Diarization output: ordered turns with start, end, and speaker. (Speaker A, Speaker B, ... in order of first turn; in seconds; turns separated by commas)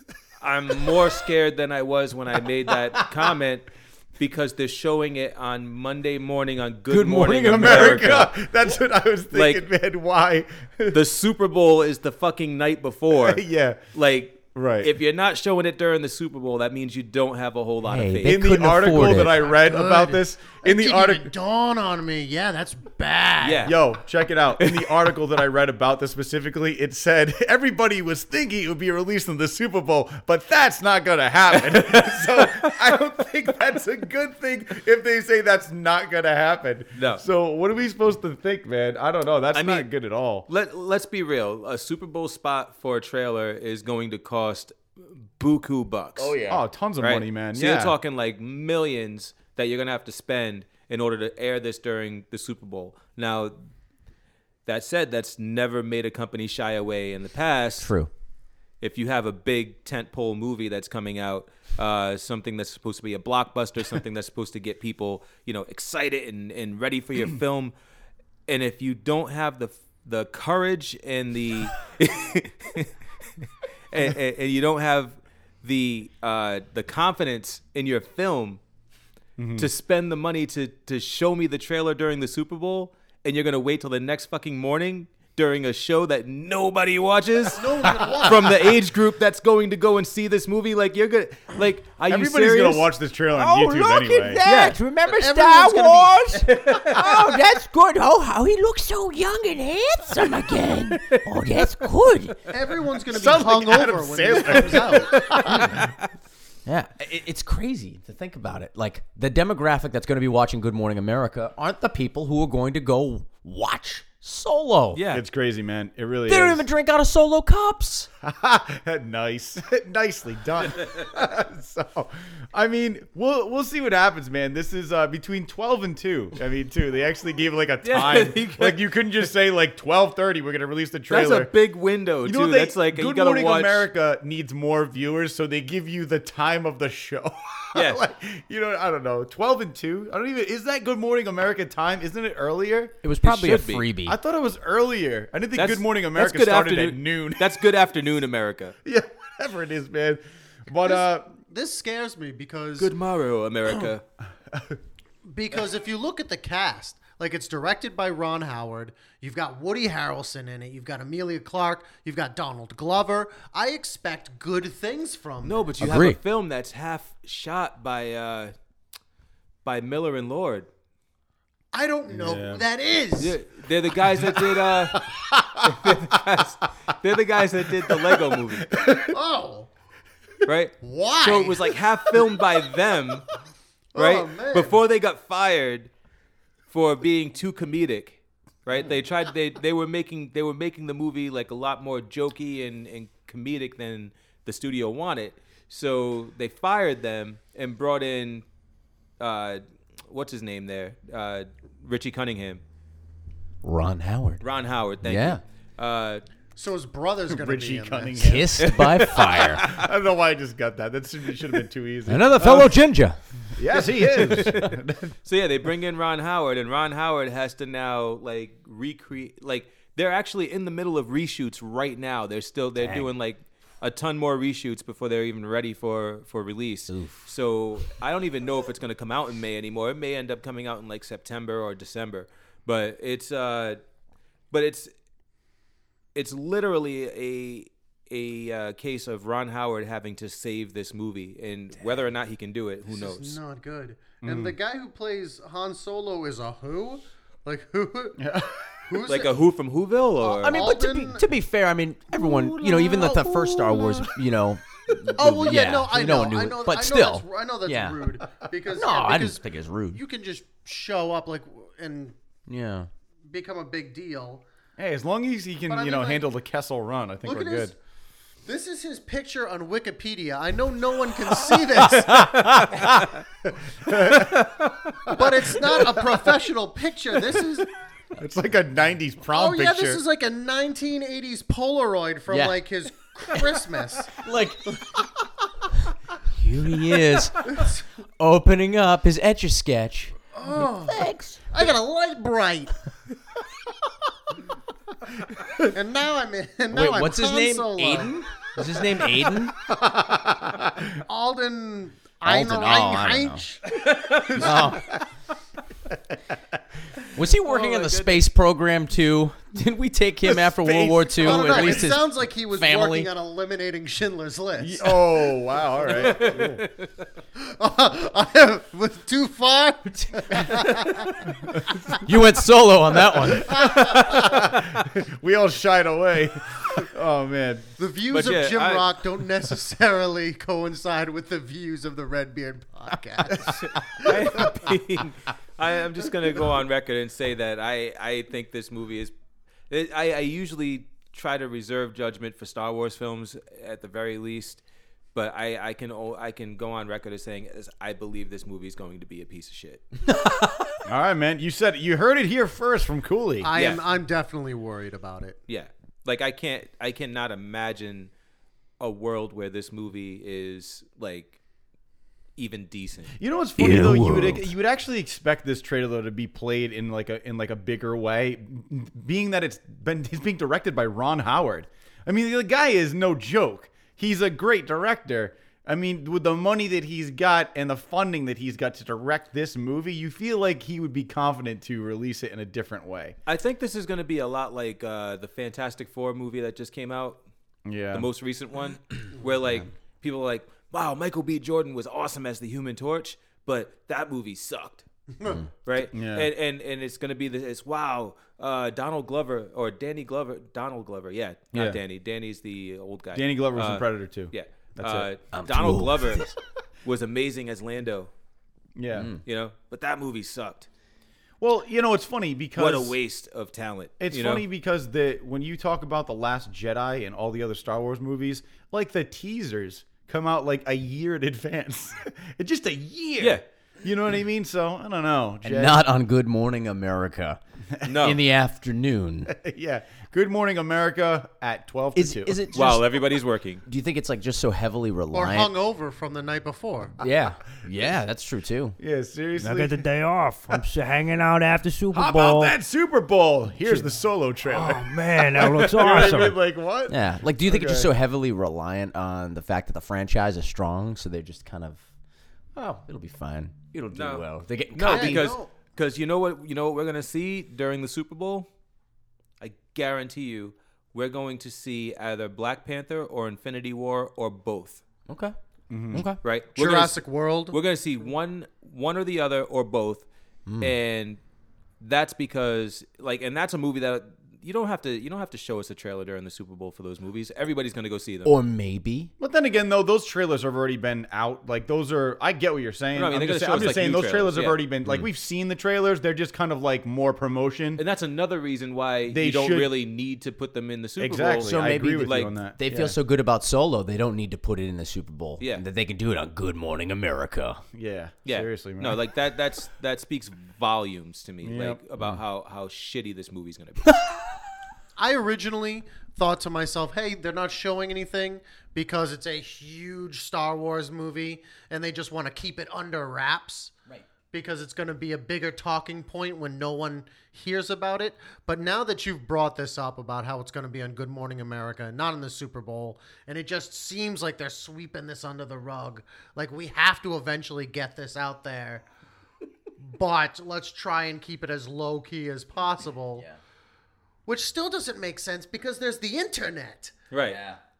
Speaker A: 0.4-8.3, Speaker B: 6.9-8.3, Speaker C: 7.5-11.0, Speaker A: 9.3-9.7, Speaker A: 10.9-13.4, Speaker C: 13.2-13.8, Speaker A: 13.9-18.4, Speaker C: 14.6-14.9, Speaker B: 17.8-19.5, Speaker C: 18.2-21.3, Speaker D: 19.1-23.7, Speaker A: 23.4-23.7, Speaker C: 23.6-40.5, Speaker A: 24.6-25.0, Speaker A: 31.6-32.7, Speaker A: 37.0-37.2, Speaker A: 39.5-39.9, Speaker A: 40.5-46.4, Speaker B: 46.2-46.6, Speaker C: 46.5-47.9, Speaker A: 47.0-53.5, Speaker A: 54.7-57.9, Speaker B: 57.8-58.1, Speaker A: 58.8-67.7, Speaker A: 68.5-72.9, Speaker A: 73.9-78.6, Speaker C: 79.4-79.7, Speaker A: 79.6-92.9, Speaker D: 87.5-88.6, Speaker C: 92.1-94.4, Speaker B: 93.3-102.4, Speaker A: 94.4-94.8, Speaker D: 95.1-96.6, Speaker A: 96.5-97.0, Speaker A: 100.9-101.8, Speaker D: 102.5-105.3, Speaker C: 103.1-105.6, Speaker A: 105.1-105.9, Speaker B: 105.5-105.8, Speaker B: 106.7-115.0, Speaker A: 114.9-115.2, Speaker C: 115.1-116.7, Speaker B: 116.3-118.1, Speaker C: 118.2-131.5, Speaker A: 127.8-128.8, Speaker A: 131.1-133.9, Speaker C: 132.2-142.9, Speaker A: 137.8-138.0, Speaker B: 143.0-144.2, Speaker A: 143.2-143.9, Speaker C: 144.1-147.5, Speaker A: 145.6-148.8, Speaker C: 148.8-151.3, Speaker D: 150.8-152.9, Speaker A: 152.8-154.0, Speaker D: 155.3-165.8, Speaker A: 165.4-168.5, Speaker B: 165.8-166.2, Speaker A: 169.7-170.7, Speaker D: 171.7-173.4, Speaker C: 172.1-172.6, Speaker A: 173.2-175.0, Speaker C: 175.5-176.2, Speaker A: 175.6-178.8, Speaker C: 178.8-179.1, Speaker D: 178.8-179.7, Speaker A: 180.5-183.3, Speaker D: 180.8-181.8, Speaker D: 183.9-184.8, Speaker A: 184.0-185.9, Speaker A: 186.7-198.4, Speaker A: 199.2-202.6, Speaker B: 203.6-204.4, Speaker A: 204.4-206.2, Speaker B: 205.0-205.4, Speaker D: 206.6-208.4, Speaker C: 207.3-212.7, Speaker B: 208.2-209.7, Speaker A: 208.6-209.7, Speaker B: 212.1-213.2, Speaker C: 213.6-215.1, Speaker A: 214.2-233.8, Speaker B: 222.8-223.1, Speaker B: 226.9-227.3, Speaker A: 234.5-234.9, Speaker A: 236.2-243.4, Speaker D: 242.9-248.2, Speaker C: 244.2-244.6, Speaker C: 248.2-248.6, Speaker D: 248.8-249.4, Speaker A: 249.1-250.7, Speaker D: 250.2-251.3, Speaker B: 250.2-258.0, Speaker D: 255.1-262.2, Speaker B: 258.7-260.0, Speaker B: 262.5-262.9, Speaker D: 263.3-264.4, Speaker C: 264.8-267.7, Speaker D: 265.7-266.2, Speaker D: 267.2-267.8, Speaker D: 268.4-272.5, Speaker A: 271.9-273.1, Speaker C: 272.4-273.0, Speaker C: 273.8-274.5, Speaker A: 274.1-275.2, Speaker D: 275.1-277.7, Speaker C: 278.2-280.0, Speaker D: 279.3-284.2, Speaker B: 282.3-282.6, Speaker B: 283.3-285.1, Speaker B: 286.3-287.6, Speaker B: 288.2-291.6, Speaker D: 290.4-292.8, Speaker D: 295.7-298.2, Speaker B: 296.7-299.6, Speaker C: 299.9-300.7, Speaker D: 301.0-304.8, Speaker B: 302.2-303.4, Speaker A: 303.7-304.5, Speaker B: 304.3-304.9, Speaker B: 307.1-313.1, Speaker A: 307.4-308.3, Speaker C: 310.4-311.8, Speaker D: 311.1-315.2, Speaker C: 314.6-316.6, Speaker A: 316.0-316.9, Speaker D: 317.4-321.8, Speaker B: 322.0-323.6, Speaker D: 323.3-324.4, Speaker C: 323.9-327.7, Speaker D: 327.8-334.6, Speaker A: 328.1-328.9, Speaker A: 333.6-339.1, Speaker A: 339.7-344.6, Speaker A: 345.1-349.9, Speaker B: 350.1-350.4, Speaker C: 350.9-353.5, Speaker D: 353.4-355.4, Speaker A: 353.5-353.8, Speaker A: 355.5-358.1, Speaker A: 358.8-361.4, Speaker A: 362.4-363.1, Speaker C: 363.2-383.2, Speaker B: 363.6-364.5, Speaker A: 383.3-387.2, Speaker C: 387.7-388.1, Speaker A: 387.9-394.8, Speaker A: 395.6-406.3, Speaker C: 395.9-396.3, Speaker C: 401.5-401.8, Speaker C: 403.1-405.1, Speaker B: 405.3-406.4, Speaker A: 406.8-408.1, Speaker C: 408.8-409.1, Speaker B: 408.9-409.2, Speaker A: 409.2-410.7, Speaker C: 411.4-413.0, Speaker A: 412.6-414.4, Speaker C: 414.0-425.9, Speaker B: 425.4-429.3, Speaker A: 427.9-428.2, Speaker C: 429.3-432.4, Speaker B: 431.9-435.5, Speaker A: 432.5-433.6, Speaker D: 435.1-437.0, Speaker B: 437.0-438.8, Speaker C: 438.8-439.9, Speaker E: 439.4-442.6, Speaker C: 441.9-447.9, Speaker E: 444.5-446.4, Speaker B: 446.9-451.8, Speaker B: 452.6-455.4, Speaker A: 453.9-458.5, Speaker D: 454.9-455.5, Speaker A: 459.4-464.8, Speaker B: 465.1-465.4, Speaker C: 465.7-466.1, Speaker B: 465.9-466.2, Speaker A: 466.2-470.1, Speaker D: 466.6-467.6, Speaker B: 470.5-470.7, Speaker A: 470.6-471.2, Speaker A: 471.8-478.3, Speaker B: 478.2-479.1, Speaker C: 479.2-487.8, Speaker A: 482.9-484.6, Speaker A: 487.8-492.3, Speaker C: 489.1-489.7, Speaker C: 491.0-493.0, Speaker B: 491.4-497.6, Speaker A: 495.4-495.6, Speaker C: 497.7-499.0, Speaker A: 498.3-503.9, Speaker C: 501.4-501.8, Speaker B: 503.9-504.2, Speaker D: 505.0-513.7, Speaker D: 514.3-528.9, Speaker D: 529.8-533.3, Speaker D: 534.3-536.9, Speaker A: 537.1-537.4, Speaker B: 537.2-537.6